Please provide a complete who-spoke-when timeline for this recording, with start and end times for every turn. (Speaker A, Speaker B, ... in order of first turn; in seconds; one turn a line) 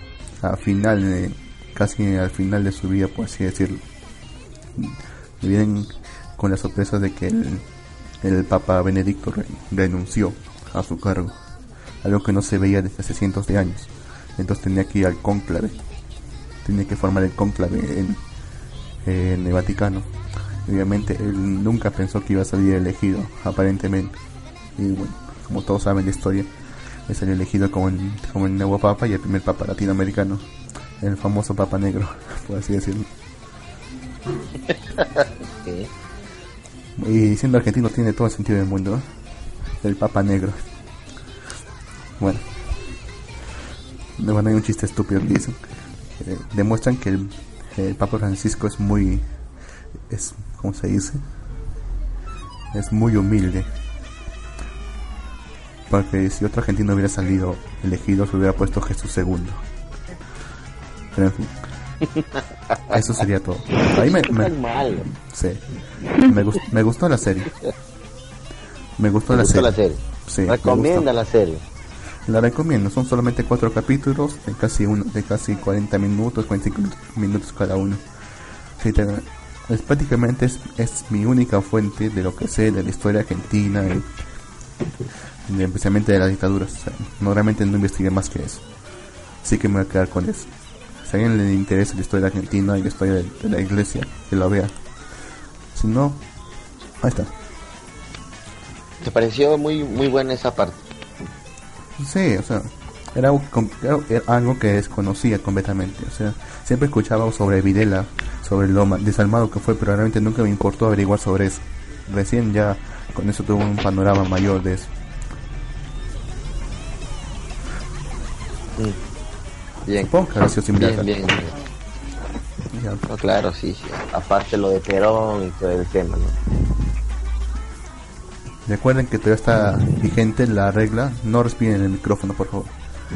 Speaker A: 0.4-3.8
Speaker A: 4.8-7.7
Speaker A: 8.2-11.4
Speaker A: 12.0-15.8
Speaker A: 16.6-18.2
Speaker A: 19.0-20.1
Speaker A: 20.7-24.2
Speaker A: 24.8-26.5
Speaker A: 27.1-30.5
Speaker A: 31.0-33.1
Speaker B: 34.7-35.9
Speaker A: 37.0-39.0
Speaker A: 39.8-40.6
Speaker A: 42.2-42.5
Speaker A: 44.2-45.6
Speaker A: 46.2-49.3
Speaker A: 50.1-51.2
Speaker A: 52.7-53.7
Speaker A: 55.9-59.6
Speaker A: 61.1-61.6
Speaker B: 62.1-63.0
Speaker A: 62.9-67.5
Speaker B: 63.9-65.1
Speaker A: 69.0-71.1
Speaker B: 69.3-71.6
Speaker A: 72.3-78.0
Speaker A: 78.8-84.1
Speaker A: 85.5-88.6
Speaker A: 89.4-94.7
Speaker A: 95.7-96.2
Speaker A: 97.0-97.3
Speaker B: 99.0-100.8
Speaker A: 102.0-114.9
Speaker A: 120.0-121.2
Speaker B: 120.8-121.6
Speaker A: 122.7-123.0
Speaker B: 123.1-126.4
Speaker A: 128.7-132.7